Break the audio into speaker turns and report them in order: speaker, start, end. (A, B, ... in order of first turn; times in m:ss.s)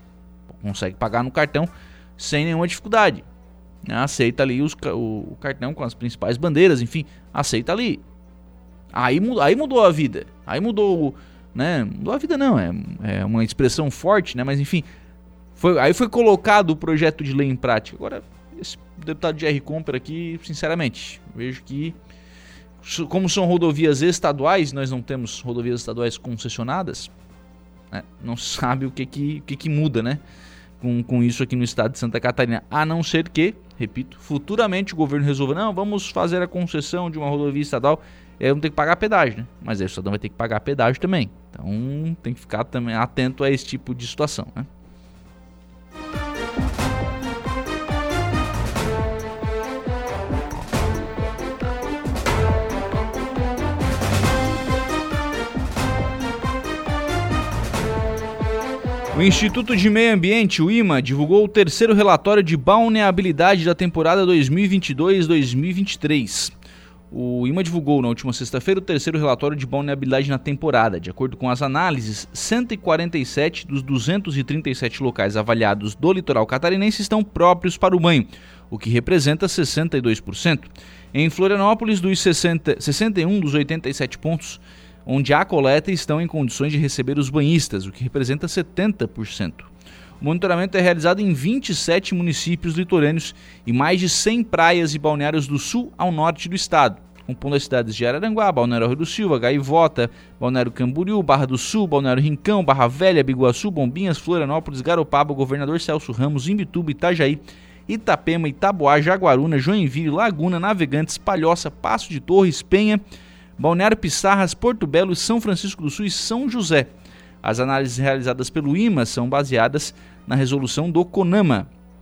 0:00.6-0:03.2 A
0:03.9-0:08.0 A
0:08.9-0:14.9 A
0:15.6-0:22.0 A
0:22.8-0:27.1 A
0:27.9-0:30.2 A
0:30.8-0:44.7 A
0:59.1-1:06.5 A
1:07.1-1:29.7 A
1:30.2-1:53.0 A
1:53.6-1:56.9 A
1:57.4-2:01.7 A